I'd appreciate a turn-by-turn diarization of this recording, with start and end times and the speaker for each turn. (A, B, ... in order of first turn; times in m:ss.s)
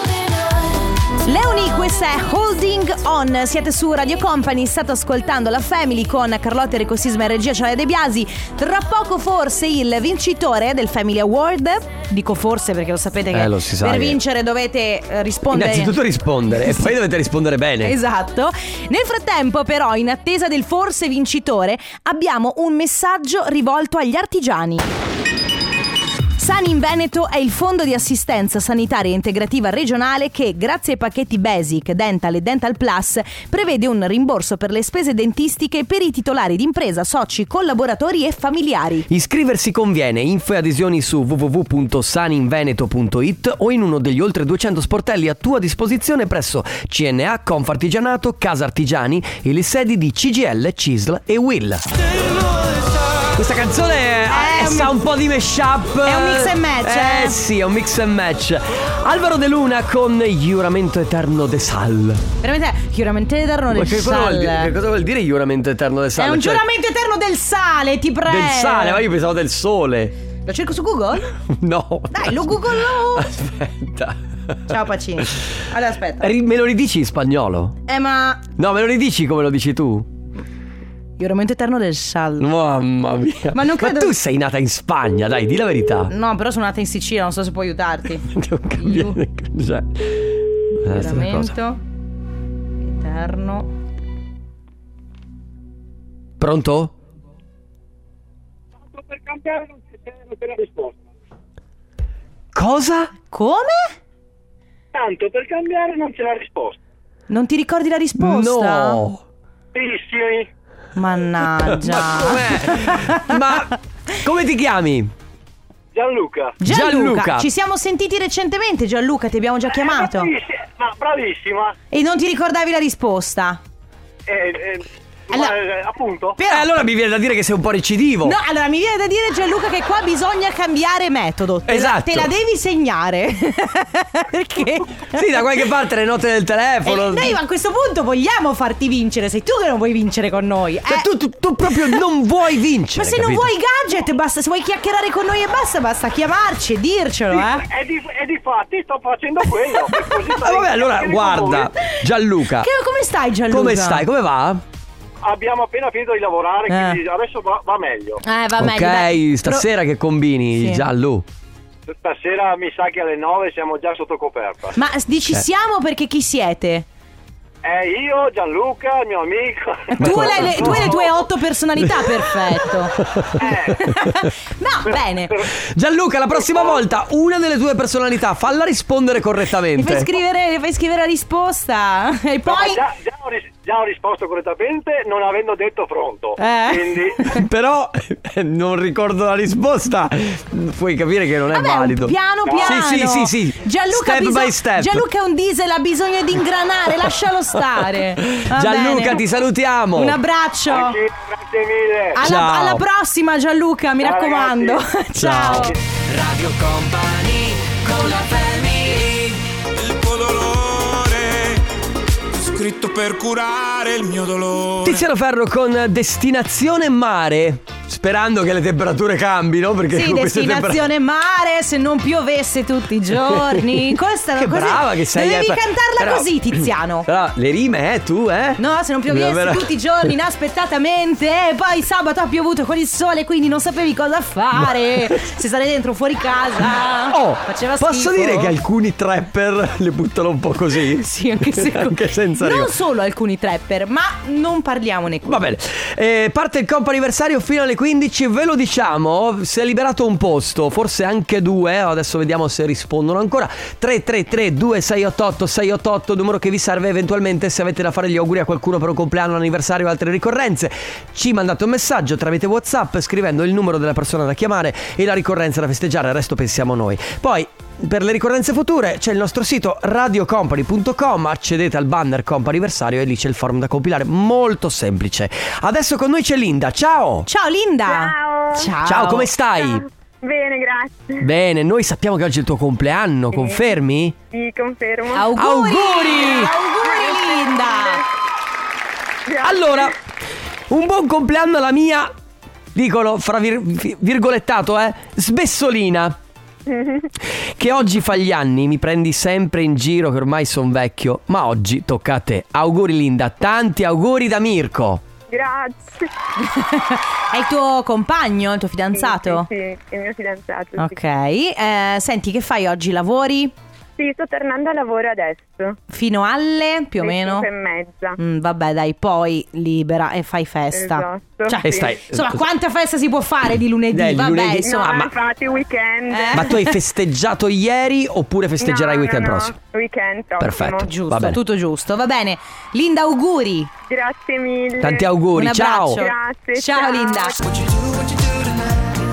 0:01.2-0:16.0 A
0:13.3-0:14.2 B
0:15.5-0:18.0 B
0:16.6-0:16.9 A
0:17.8-0:24.9 A
0:26.4-0:39.1 A
0:39.1-0:51.9 B
0:53.3-1:02.2 B
0:54.3-0:55.0 A
0:56.0-0:57.4 A
1:02.4-1:04.7 A
1:03.7-1:06.6 B
1:06.2-1:09.1 A
1:08.3-1:10.1 B
1:10.4-1:11.3 A
1:11.5-1:15.4 B
1:12.1-1:13.3 A
1:14.7-1:16.3 A
1:16.2-1:17.8 B
1:17.9-1:18.4 A
1:18.6-1:20.1 B
1:21.2-1:22.5 A
1:22.4-1:26.1 B
1:23.5-1:24.2 A
1:26.1-1:29.2 A
1:28.3-1:31.6 B
1:30.8-1:31.8 A
1:32.8-1:33.7 A
1:36.4-1:36.9 B
1:38.9-1:41.0 C
1:42.5-1:43.1 B
1:43.3-1:43.9 A
1:44.9-1:46.8 C
1:47.3-1:49.0 A
1:48.2-1:49.2 B
1:49.7-1:50.5 C
1:51.0-1:53.4 A
1:51.6-1:55.1 B
1:55.9-1:56.6 C
1:56.6-2:00.3 A
1:56.6-1:57.5 B
1:59.8-2:01.8 C
2:01.9-2:03.6 A
2:04.3-2:06.4 C
2:06.4-2:06.7 A
2:06.4-2:08.4 B
2:08.2-2:15.5 A
2:11.7-2:12.3 B
2:15.1-2:17.4 B
2:16.8-2:21.1 A
2:20.9-2:23.5 B
2:22.9-2:27.6 A
2:27.3-2:31.7 C
2:29.9-2:30.1 A
2:30.4-2:32.7 B
2:32.6-2:34.0 A
2:33.5-2:34.6 B
2:35.2-2:38.2 C
2:36.7-2:37.0 A
2:38.2-2:39.7 A
2:38.6-2:41.3 B
2:40.5-2:40.9 A
2:41.9-2:44.8 C
2:44.8-2:46.9 A
2:47.6-2:51.2 C
2:50.0-2:51.0 B
2:50.0-2:55.3 A
2:53.0-2:53.4 B
2:53.4-2:53.8 C
2:53.9-2:54.3 B
2:55.6-3:00.1 B
2:56.5-2:56.8 C
2:59.8-3:02.8 A
3:02.4-3:07.3 C
3:06.4-3:07.4 A
3:07.3-3:15.1 B
3:11.5-3:19.2 A
3:12.5-3:12.7 C
3:17.5-3:20.2 B
3:19.9-3:21.0 A
3:20.7-3:22.2 C
3:22.1-3:25.8 A
3:22.2-3:22.8 B
3:24.0-3:24.8 C
3:25.1-3:25.7 B
3:26.1-3:29.2 D
3:29.8-3:31.6 E
3:32.3-3:35.0 E
3:34.8-3:40.9 B
3:39.9-3:47.1 A
3:43.3-3:43.8 B
3:44.4-3:50.1 B
3:48.6-3:58.6 A
3:54.6-3:55.1 B
3:57.1-4:02.7 B
4:01.0-4:05.4 A
4:05.2-4:37.3 B
4:37.3-4:39.3 A
4:37.8-4:38.7 F
4:38.8-4:39.8 B
4:39.6-4:41.2 F
4:41.2-4:44.2 B
4:43.3-4:43.6 F
4:44.3-4:45.4 F
4:45.1-4:48.0 A
4:45.4-4:46.5 B
4:46.3-4:48.0 F
4:49.3-4:49.9 F
4:49.4-4:50.0 B
4:50.7-4:52.1 B
4:52.7-4:56.2 B
4:56.7-4:57.1 F
4:57.6-5:05.0 B
5:05.3-5:06.0 F
5:06.4-5:09.5 A
5:08.9-5:11.0 F
5:10.8-5:13.5 A
5:14.0-5:15.8 F
5:15.9-5:17.5 A
5:17.0-5:18.2 F
5:18.2-5:25.0 A
5:20.7-5:22.0 F
5:21.6-5:22.4 B
5:23.9-5:25.1 B
5:24.7-5:26.5 F
5:26.1-5:26.8 A
5:26.3-5:29.5 B
5:28.6-5:31.0 F
5:30.4-5:31.4 B
5:30.8-5:33.7 A
5:33.9-5:35.1 F
5:34.8-5:36.0 B
5:35.3-5:37.4 A
5:35.9-5:37.4 F